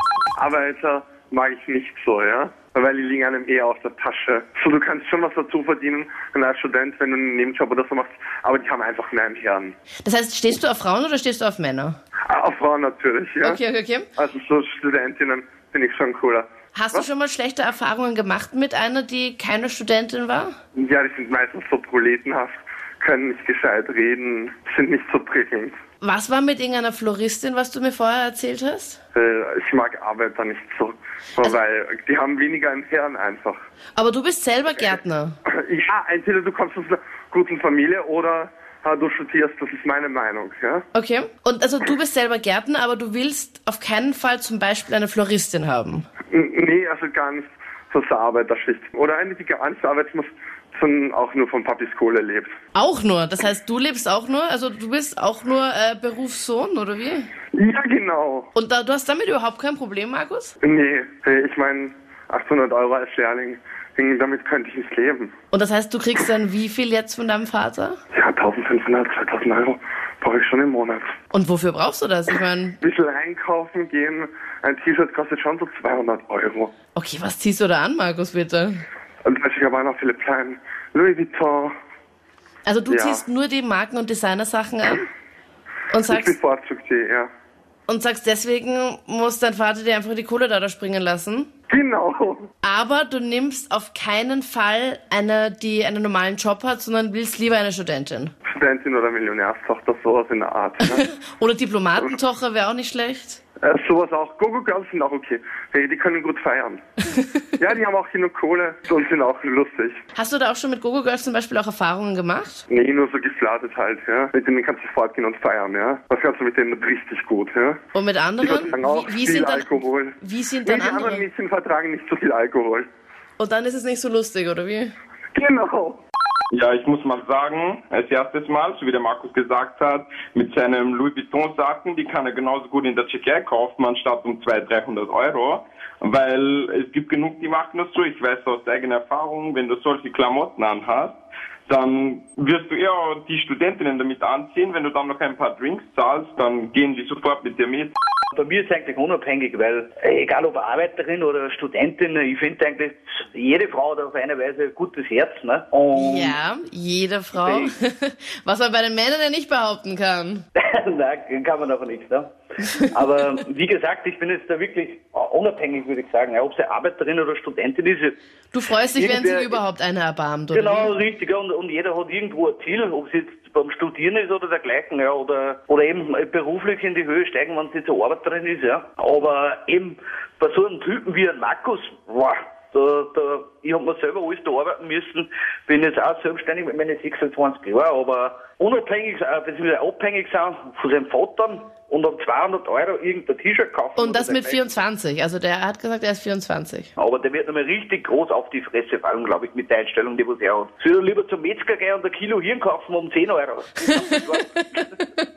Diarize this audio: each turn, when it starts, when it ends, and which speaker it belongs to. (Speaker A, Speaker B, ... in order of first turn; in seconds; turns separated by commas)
Speaker A: 0.3-9.7, Speaker B: 10.0-11.9, Speaker A: 12.3-13.6, Speaker B: 13.4-14.1, Speaker A: 14.1-17.0, Speaker B: 16.7-20.5, Speaker A: 20.7-25.8, Speaker B: 26.0-29.0, Speaker A: 29.1-33.6, Speaker B: 34.0-35.4, Speaker A: 35.5-40.8, Speaker B: 40.9-46.0, Speaker A: 46.3-52.5, Speaker B: 52.7-57.3, Speaker A: 57.5-58.5, Speaker B: 58.5-60.5, Speaker A: 60.6-65.3, Speaker B: 65.5-68.0, Speaker A: 68.1-71.1, Speaker B: 71.3-72.8, Speaker A: 72.8-76.7, Speaker B: 77.0-78.8, Speaker A: 79.2-81.7, Speaker B: 82.7-85.0, Speaker A: 82.9-83.2, Speaker B: 85.9-86.3, Speaker A: 86.1-87.3, Speaker B: 87.9-91.5, Speaker A: 91.7-92.5, Speaker B: 92.6-98.3, Speaker A: 98.5-101.1, Speaker B: 100.9-103.4, Speaker A: 103.6-106.8, Speaker A: 107.6-110.0, Speaker B: 110.2-112.6, Speaker A: 112.7-117.8, Speaker B: 117.9-121.2, Speaker A: 118.4-122.9, Speaker B: 123.4-124.9, Speaker A: 125.3-126.0, Speaker C: 126.5-147.9, Speaker D: 148.3-156.4, Speaker B: 155.9-160.4, Speaker D: 157.3-157.7, Speaker D: 160.6-162.3, Speaker D: 162.8-168.2, Speaker B: 168.5-170.9, Speaker D: 168.9-169.6, Speaker D: 170.5-194.7, Speaker B: 194.0-196.9, Speaker D: 197.0-204.6